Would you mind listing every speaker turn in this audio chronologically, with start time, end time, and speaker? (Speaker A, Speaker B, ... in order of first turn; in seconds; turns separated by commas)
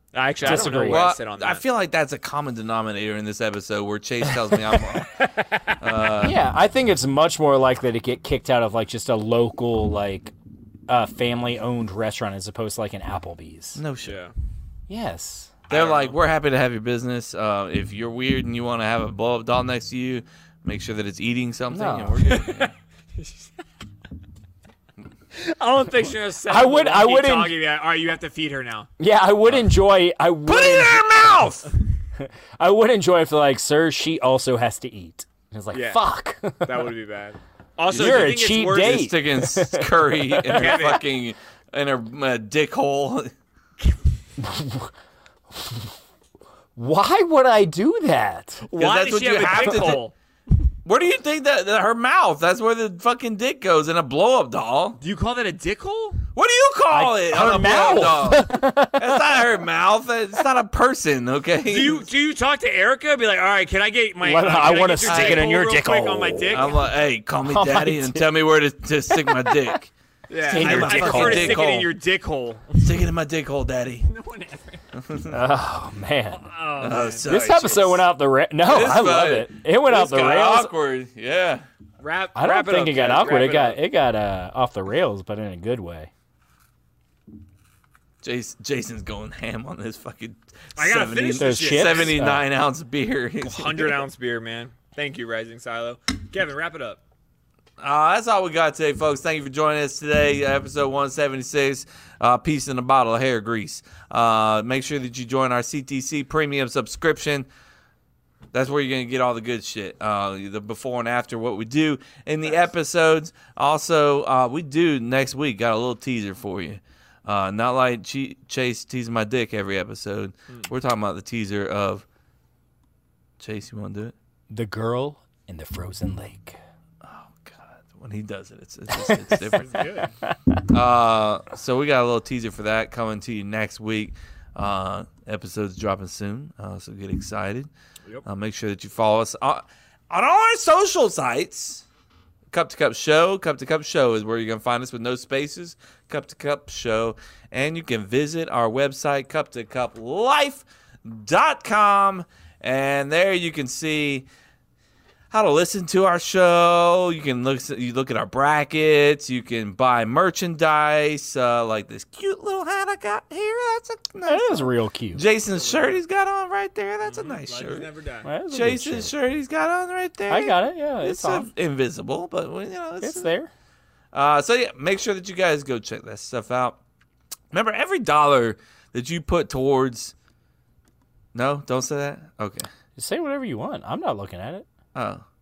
Speaker A: 0.1-1.6, Speaker B: 0.4-1.1, Speaker C: 0.4-5.1, Speaker B: 4.5-5.0, Speaker C: 5.8-6.4, Speaker B: 6.2-10.3, Speaker B: 10.9-13.8, Speaker C: 13.8-14.1, Speaker A: 14.0-14.3, Speaker B: 14.9-15.6, Speaker A: 15.7-16.2, Speaker C: 15.7-22.7, Speaker B: 21.7-22.4, Speaker A: 22.3-23.5, Speaker A: 25.3-28.9, Speaker B: 26.5-27.5, Speaker B: 29.0-31.1, Speaker C: 30.4-31.7, Speaker B: 32.2-36.9, Speaker A: 35.7-39.1, Speaker C: 37.9-43.3, Speaker B: 37.9-41.0, Speaker A: 40.5-41.0, Speaker B: 44.4-44.9, Speaker B: 45.5-45.9, Speaker B: 46.8-48.6, Speaker A: 48.6-50.1, Speaker C: 48.8-50.0, Speaker B: 49.5-49.9, Speaker C: 50.8-55.0, Speaker A: 55.0-56.2, Speaker C: 56.3-62.0, Speaker B: 56.9-59.3, Speaker A: 57.7-58.1, Speaker A: 61.7-66.7, Speaker B: 64.2-66.8, Speaker C: 65.0-65.5, Speaker C: 66.5-69.9, Speaker B: 67.4-68.3, Speaker B: 69.1-69.8, Speaker A: 70.3-73.0, Speaker C: 70.4-71.8, Speaker B: 70.5-71.8, Speaker C: 72.8-74.1, Speaker A: 74.0-74.8, Speaker C: 74.9-75.3, Speaker B: 75.3-76.5, Speaker A: 76.3-77.2, Speaker C: 76.8-78.0, Speaker B: 77.2-80.7, Speaker C: 78.7-81.7, Speaker A: 82.0-83.8, Speaker B: 82.3-86.1, Speaker C: 88.2-94.0, Speaker A: 90.8-92.2, Speaker B: 91.4-92.5, Speaker A: 93.4-97.0, Speaker C: 97.8-107.5, Speaker C: 108.5-122.0, Speaker C: 123.4-124.1, Speaker B: 124.5-126.6, Speaker C: 127.0-129.7, Speaker B: 128.9-129.6, Speaker A: 129.5-130.1, Speaker B: 130.2-130.6, Speaker C: 130.7-137.7, Speaker C: 138.2-141.8, Speaker C: 142.5-154.3, Speaker C: 155.3-167.9, Speaker B: 164.2-165.2, Speaker A: 165.5-166.0, Speaker A: 167.0-168.3, Speaker B: 168.2-169.1, Speaker C: 168.5-173.3, Speaker B: 170.3-171.5, Speaker B: 173.0-173.5, Speaker C: 174.1-176.8, Speaker C: 177.5-180.1, Speaker C: 181.3-182.7, Speaker B: 182.9-184.7, Speaker C: 184.9-185.2